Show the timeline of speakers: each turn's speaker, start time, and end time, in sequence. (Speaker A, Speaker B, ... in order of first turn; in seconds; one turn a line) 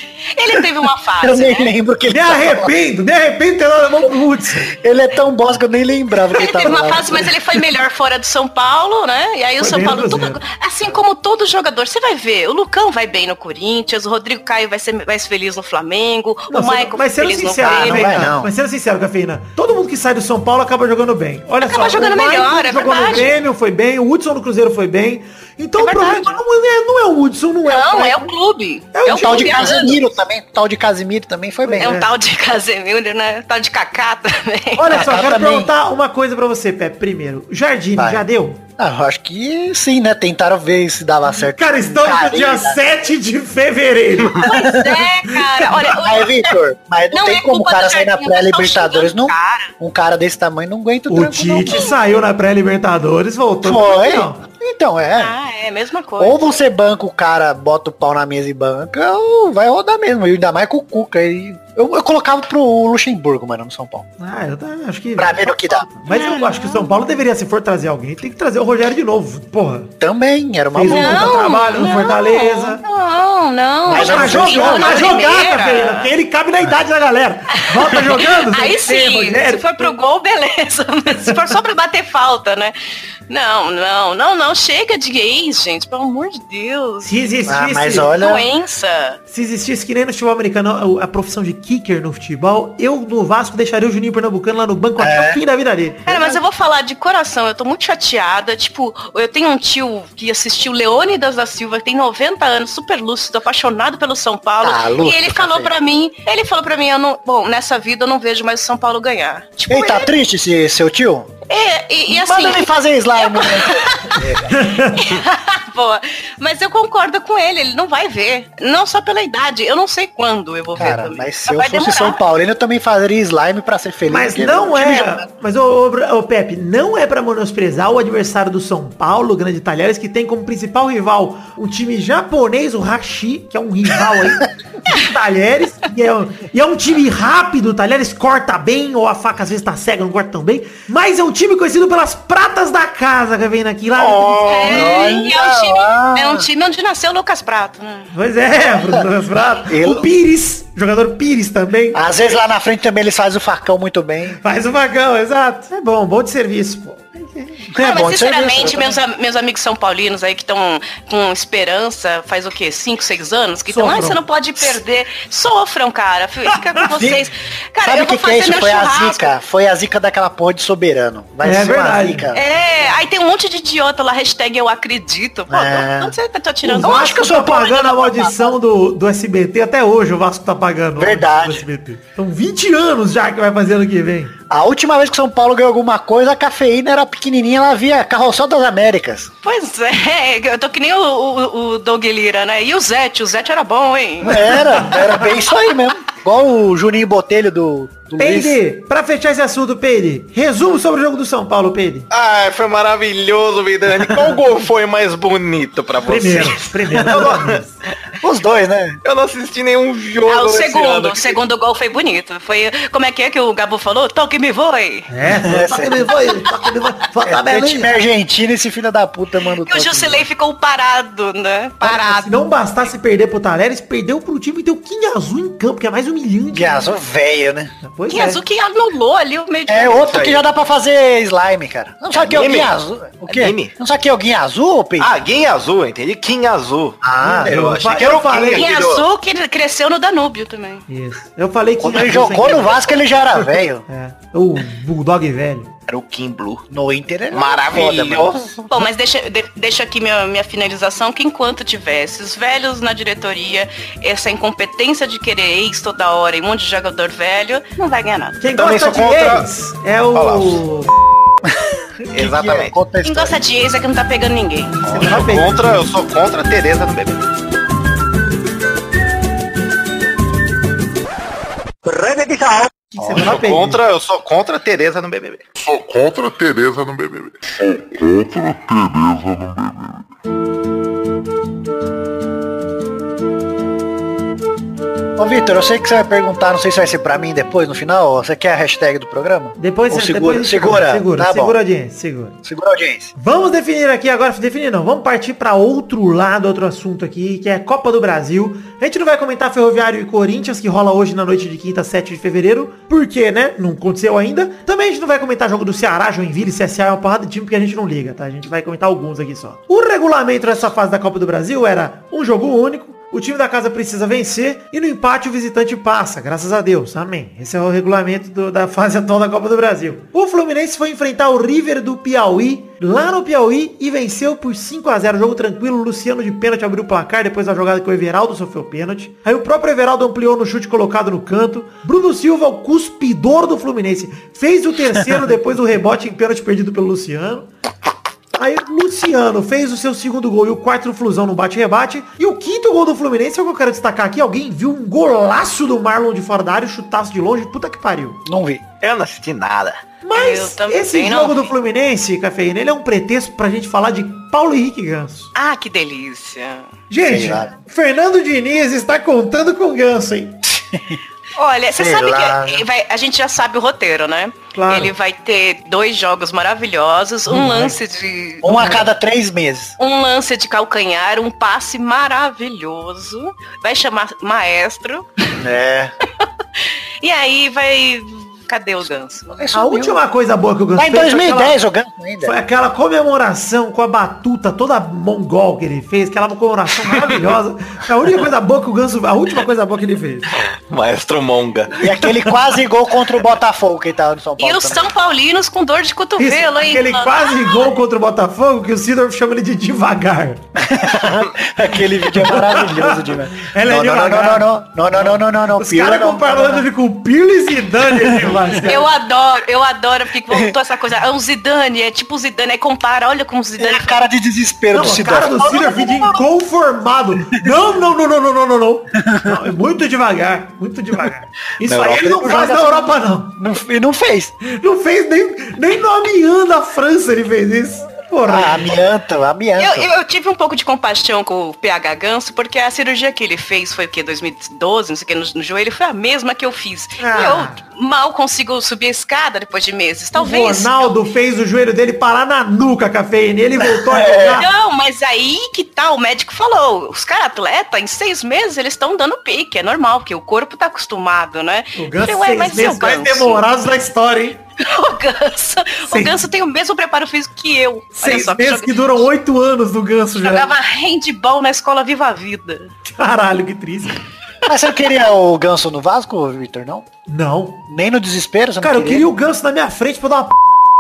Speaker A: 0.3-1.7
Speaker B: 1.2-2.7
Speaker C: 2.1-4.7
Speaker B: 4.7-7.6
Speaker A: 6.4-18.3
Speaker C: 9.6-10.4
Speaker C: 16.5-28.3
Speaker B: 17.6-18.5
Speaker A: 21.6-23.4
Speaker A: 25.8-26.4
Speaker A: 27.6-30.0
Speaker C: 28.9-29.8
Speaker B: 29.2-31.9
Speaker C: 31.6-32.1
Speaker A: 31.8-35.1
Speaker C: 34.8-38.6
Speaker B: 34.9-35.7
Speaker B: 38.0-38.2
Speaker B: 38.8-42.8
Speaker C: 41.4-44.5
Speaker A: 44.4-46.3
Speaker B: 44.5-44.9
Speaker B: 45.9-51.8
Speaker A: 47.1-49.7
Speaker C: 51.1-54.4
Speaker A: 51.7-52.0
Speaker B: 53.6-55.3
Speaker A: 55.2-56.4
Speaker B: 56.2-64.1
Speaker C: 64.2-69.9
Speaker B: 65.2-65.9
Speaker A: 66.1-67.0
Speaker B: 70.0-71.5
Speaker C: 70.7-72.8
Speaker A: 70.8-76.1
Speaker C: 73.9-79.9
Speaker B: 73.9-75.1
Speaker A: 77.5-82.7
Speaker C: 81.2-81.5
Speaker A: 83.3-87.2
Speaker C: 87.0-88.1
Speaker B: 87.5-88.5
Speaker A: 88.1-89.2
Speaker C: 89.3-96.4
Speaker B: 95.0-95.4
Speaker A: 96.1-110.1
Speaker B: 104.6-105.7
Speaker B: 109.7-111.3
Speaker A: 111.5-122.2
Speaker B: 112.1-114.5
Speaker C: 114.5-115.1
Speaker B: 120.8-125.3
Speaker C: 124.1-145.1
Speaker D: 144.0-144.9
Speaker A: 144.4-148.1
Speaker B: 144.7-146.5
Speaker C: 148.1-152.0
Speaker B: 148.6-149.1
Speaker B: 149.7-150.1
Speaker B: 151.9-154.4
Speaker C: 154.4-157.7
Speaker B: 157.7-159.0
Speaker A: 157.8-169.3
Speaker C: 163.7-164.2
Speaker B: 166.9-167.2
Speaker B: 167.8-172.4
Speaker C: 171.4-172.3
Speaker A: 172.3-177.9
Speaker B: 175.5-176.1
Speaker C: 176.6-184.3
Speaker B: 176.8-178.6
Speaker B: 181.0-181.7
Speaker B: 184.5-189.3
Speaker A: 189.4-194.9
Speaker B: 194.2-198.6
Speaker C: 198.2-202.1
Speaker D: 202.1-207.6
Speaker C: 206.0-207.7
Speaker B: 208.2-209.0
Speaker D: 209.0-211.4
Speaker A: 210.3-215.1
Speaker C: 215.1-216.1
Speaker B: 215.3-216.1
Speaker E: 215.7-217.9
Speaker B: 217.2-220.3
Speaker A: 219.6-222.4
Speaker C: 221.8-226.9
Speaker B: 226.5-227.7
Speaker C: 227.8-228.4
Speaker A: 228.1-230.2
Speaker B: 229.7-235.2
Speaker D: 230.0-230.4
Speaker D: 232.1-232.7
Speaker D: 233.3-233.7
Speaker D: 235.0-239.0
Speaker B: 237.0-237.7
Speaker C: 237.2-238.7
Speaker A: 238.5-240.8
Speaker C: 240.9-243.0
Speaker B: 241.8-243.8
Speaker C: 243.9-245.7
Speaker D: 245.9-246.7
Speaker B: 246.7-248.5
Speaker D: 247.3-248.6
Speaker A: 248.7-258.4
Speaker C: 258.4-260.9
Speaker D: 258.5-259.5
Speaker D: 260.1-260.6
Speaker D: 262.1-262.8
Speaker B: 262.1-263.4
Speaker A: 263.1-264.8
Speaker C: 264.8-265.9
Speaker D: 264.9-267.2
Speaker B: 271.9-272.6
Speaker C: 272.9-273.8
Speaker D: 273.0-275.4
Speaker F: 275.6-280.0
Speaker B: 285.2-291.6
Speaker C: 289.6-292.4
Speaker B: 292.4-293.1
Speaker C: 293.2-337.5
Speaker C: 338.4-348.2
Speaker B: 348.3-348.6
Speaker D: 348.8-349.8
Speaker C: 350.0-355.3
Speaker A: 350.1-351.5
Speaker A: 355.4-356.7
Speaker C: 356.9-360.4
Speaker B: 357.0-357.5
Speaker B: 360.5-361.0
Speaker A: 361.4-368.7
Speaker B: 361.7-362.7
Speaker C: 364.5-364.9
Speaker C: 367.3-367.7
Speaker B: 368.4-369.8
Speaker C: 368.4-368.9
Speaker A: 369.8-375.1
Speaker B: 375.4-375.9
Speaker A: 377.0-379.5
Speaker B: 379.4-380.0
Speaker C: 379.5-381.6
Speaker B: 380.8-382.4
Speaker C: 382.2-390.3
Speaker D: 390.4-391.8
Speaker B: 391.8-394.9
Speaker C: 391.8-392.4
Speaker A: 394.4-397.7
Speaker C: 396.2-400.4
Speaker B: 400.6-406.7
Speaker C: 402.1-408.9
Speaker B: 407.9-408.4
Speaker A: 408.6-414.0
Speaker B: 413.6-416.2
Speaker C: 414.7-423.4
Speaker B: 419.0-419.4
Speaker B: 421.6-424.3
Speaker C: 424.4-428.7
Speaker B: 428.3-429.9
Speaker A: 429.6-440.9
Speaker C: 437.0-437.6
Speaker C: 440.1-444.5
Speaker A: 444.3-453.4
Speaker C: 451.8-454.4
Speaker A: 454.6-459.1
Speaker C: 455.9-456.2
Speaker C: 457.9-460.5
Speaker A: 460.2-462.7
Speaker C: 462.9-464.0
Speaker B: 464.5-466.9
Speaker C: 467.1-467.6
Speaker B: 467.7-469.1
Speaker C: 468.6-470.4